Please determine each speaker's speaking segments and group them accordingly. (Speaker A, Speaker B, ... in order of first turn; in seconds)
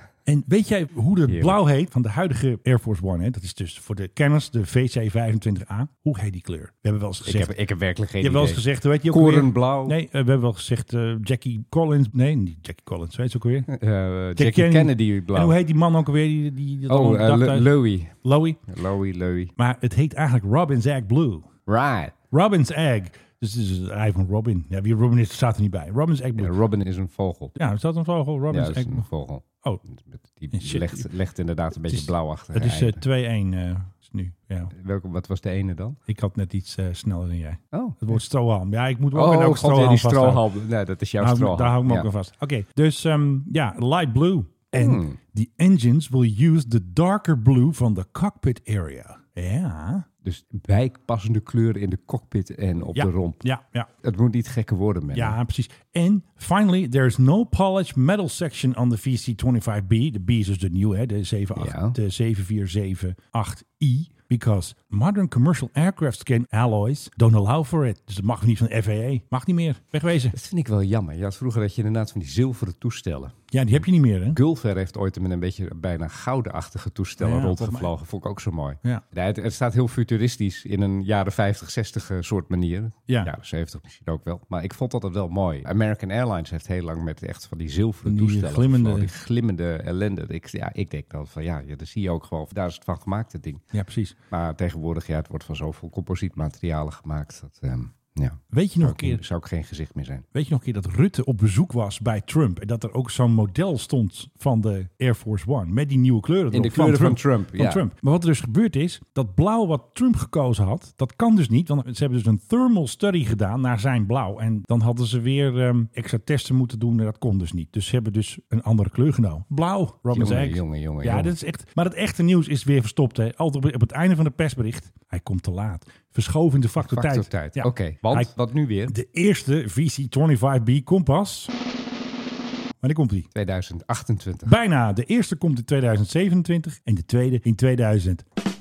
Speaker A: 0.2-7.5, 8.2-13.7, 14.4-17.7, 18.2-18.6, 19.6-21.5, 22.3-26.6, 27.6-29.1, 30.5-31.1, 31.9-34.7, 36.1-40.4, 41.2-50.0, 52.9-53.9, 55.1-70.3, 73.5-74.4, 77.2-77.9, 88.0-89.1, 93.7-94.2, 98.5-99.2, 100.3-128.3, 128.9-131.5, 132.8-133.3, 134.4-138.2
Speaker B: 1.3-1.6, 7.2-10.0, 13.7-15.6, 16.9-18.1, 18.7-19.5, 21.7-22.1, 26.4-27.5, 28.5-33.0, 34.7-36.0, 37.7-38.2, 39.1-42.1, 44.7-45.2, 50.2-53.4, 54.0-55.4, 61.5-62.0, 70.3-73.3, 74.3-93.6, 94.3-100.2, 106.5-107.8, 120.1-121.3, 126.8-128.9, 133.3-134.6